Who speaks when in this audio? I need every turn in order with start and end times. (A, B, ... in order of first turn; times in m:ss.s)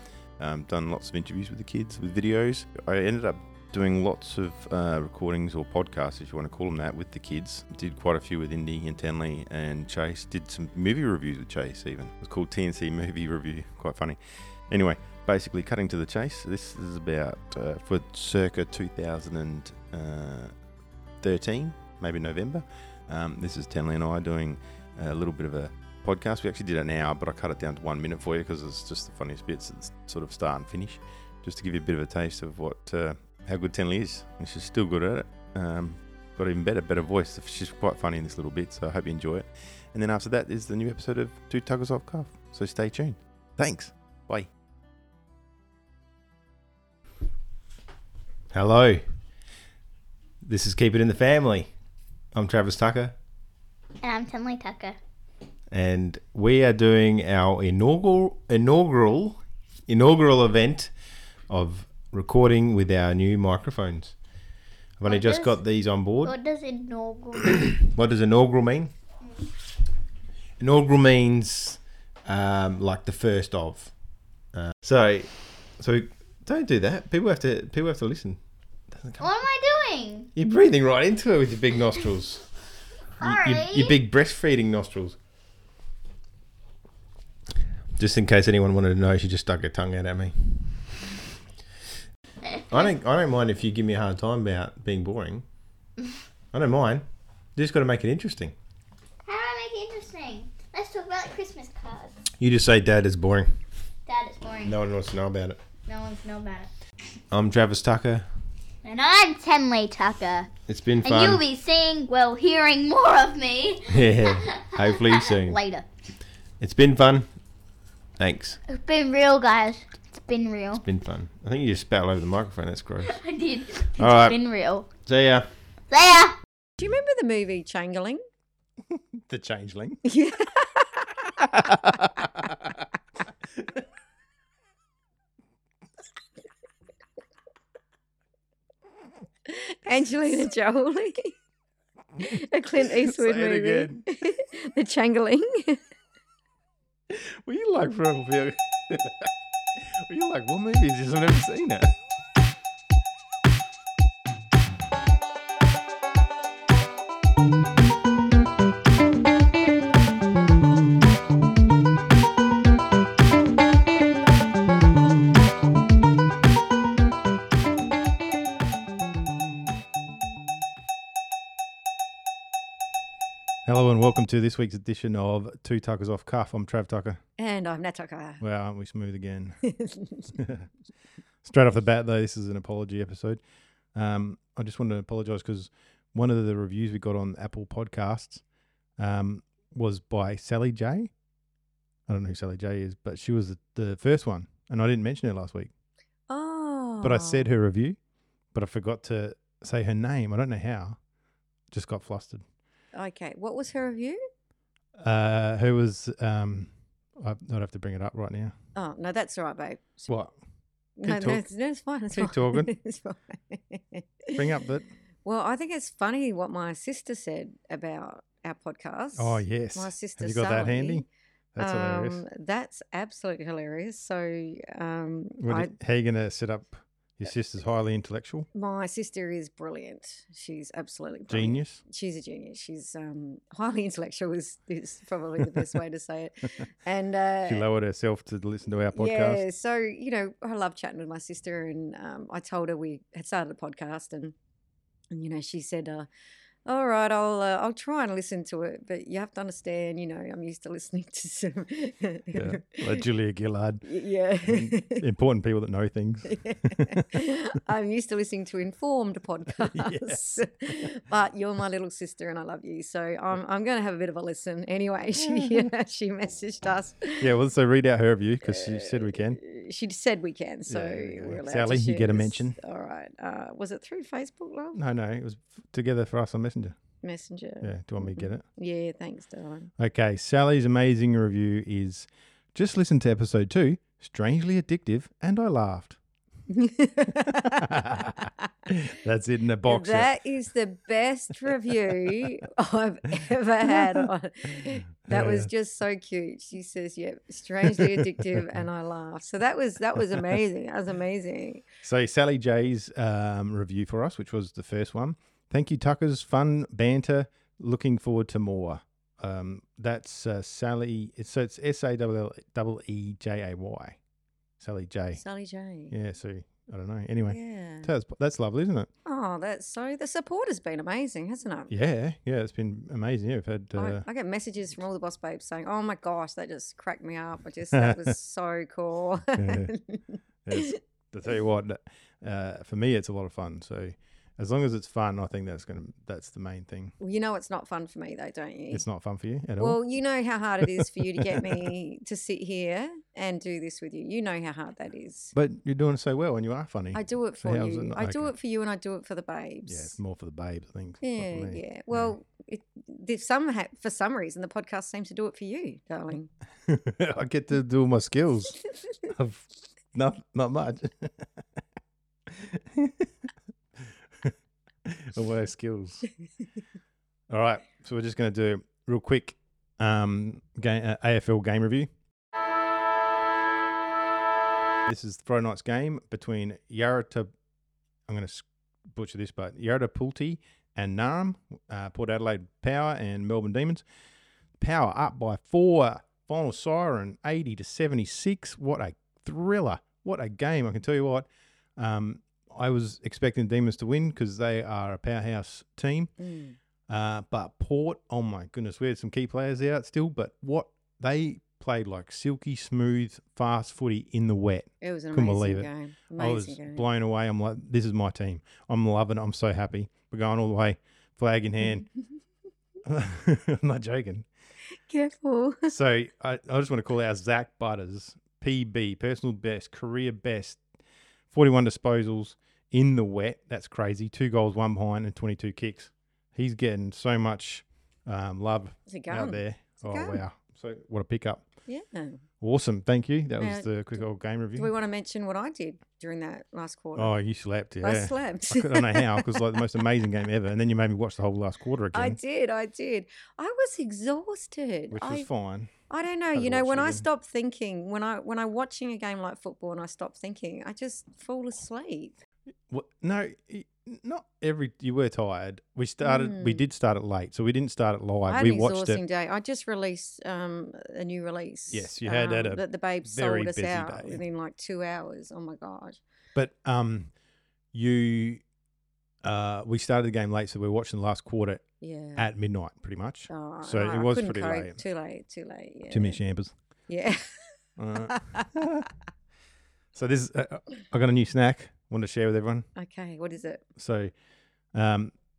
0:00.4-0:20.5 A
0:21.2-0:44.5 A
0:48.5-0:49.0 B
0:50.4-0:51.7 B
0:52.3-0:53.2 B
0:54.0-0:55.0 C
0:55.7-1:00.9 B
1:01.5-1:04.1 B
1:05.0-1:06.3 B
1:05.0-1:05.6 C
1:06.2-1:07.7 C
1:07.9-1:08.9 B
1:10.6-1:13.9 B
1:14.5-1:18.4 B
1:19.0-1:19.2 B
1:19.2-1:20.3 C
1:20.4-1:22.5 B
1:23.2-1:24.0 C
1:23.2-1:25.2 B
1:28.0-1:30.3 B
1:32.7-1:35.4 B
1:36.5-1:38.6 B
1:39.2-1:42.2 C
1:42.4-1:43.5 B
1:44.1-1:44.8 C
1:44.6-1:45.6 B
1:45.9-1:46.7 C
1:47.3-1:48.3 B
1:48.8-1:50.5 C
1:50.7-1:51.4 B
1:51.0-1:55.8 C
1:53.9-1:55.6 B
1:56.6-1:57.3 B
1:58.2-1:58.6 B
1:58.7-2:00.8 C
2:00.8-2:03.2 B
2:03.1-2:04.9 C
2:04.0-2:04.4 B
2:05.0-2:05.5 B
2:05.9-2:06.4 C
2:06.8-2:08.2 D
2:08.9-2:10.0 A
2:10.0-2:11.6 D
2:11.4-2:12.8 A
2:19.4-2:21.4 D
2:22.2-2:25.8 D
2:22.8-2:24.0 A
2:27.1-2:31.9 A
2:53.7-2:57.2 A
2:57.4-2:58.4 D
2:58.4-2:59.6 A
2:59.6-3:00.3 D
3:00.4-3:00.7 A
3:01.4-3:03.4 A
3:03.9-3:08.4 A
3:09.0-3:11.1 A
3:12.1-3:15.7 A
3:16.3-3:17.5 D
3:17.0-3:18.0 A
3:18.5-3:21.0 A
3:21.7-3:22.4 A
3:22.9-3:24.3 D
3:25.0-3:28.6 A
3:28.8-3:30.1 D
3:30.1-3:30.4 A
3:31.0-3:34.6 D
3:31.0-3:31.4 A
3:32.1-3:32.7 A
3:34.3-3:34.9 A
3:35.2-3:41.1 D
3:39.2-3:42.2 A
3:41.6-3:45.7 D
3:45.4-3:48.5 A
3:48.5-3:57.7 D
3:51.3-3:51.8 A
3:57.4-3:59.4 A
3:58.9-4:04.4 D
4:05.1-4:06.1 D
4:06.7-4:13.0 D
4:12.3-4:13.8 A
4:13.8-4:15.0 D
4:14.5-4:17.2 A
4:16.3-4:27.3 D
4:19.6-4:20.5 A
4:25.2-4:25.7 A
4:27.2-4:29.4 A
4:28.4-4:34.8 D
4:30.7-4:32.6 A
4:34.8-4:36.8 A
4:37.0-4:39.7 D
4:37.6-4:38.4 A
4:39.8-4:46.0 A
4:46.5-4:48.5 D
4:47.1-4:50.1 A
4:49.6-5:01.7 D
4:51.5-4:52.3 A
4:55.1-4:55.5 A
4:57.6-4:58.4 A
5:01.8-5:14.0 A
5:14.6-5:15.2 A
5:15.2-5:15.9 D
5:15.9-5:18.9 A
5:17.3-5:17.9 D
5:19.0-5:21.7 D
5:21.7-5:24.0 A
5:23.8-5:30.8 D
5:27.7-5:28.1 A
5:29.4-5:29.7 A
5:30.4-5:36.9 A
5:37.0-5:38.9 D
5:38.7-5:39.8 A
5:39.6-5:45.3 D
5:40.8-5:41.6 A
5:45.3-5:48.3 A
5:46.9-5:50.0 D
5:49.7-5:52.1 A
5:51.0-5:56.3 D
5:56.7-6:01.3 A
6:02.3-6:03.1 A
6:04.9-6:06.1 A
6:07.3-6:11.9 A
6:14.9-6:17.3 A
6:18.1-6:23.8 A
6:24.6-6:36.1 A
6:36.2-6:36.6 D
6:36.9-6:51.9 A
6:44.8-6:46.8 D
6:52.8-6:54.3 A
6:54.8-6:55.8 D
6:55.7-7:00.6 A
7:01.3-7:11.4 A
7:08.9-7:10.2 D
7:11.7-7:12.2 D
7:12.4-7:14.7 A
7:13.4-7:14.0 D
7:14.6-7:17.1 D
7:17.0-7:22.2 A
7:17.8-7:19.6 D
7:21.9-7:25.3 D
7:24.9-7:25.7 A
7:25.9-7:32.2 D
7:26.3-7:27.0 A
7:32.7-7:39.0 A
7:36.0-7:36.7 D
7:38.3-7:46.0 D
7:41.7-7:44.2 A
7:46.4-7:47.1 A
7:47.7-7:48.4 A
7:49.2-7:54.8 A
7:51.8-7:52.3 D
7:53.3-7:56.2 D
7:55.9-7:56.5 A
7:56.9-7:58.4 D
7:57.8-7:58.9 A
8:00.0-8:02.7 A
8:02.8-8:03.6 D
8:03.8-8:04.1 A
8:04.7-8:05.1 A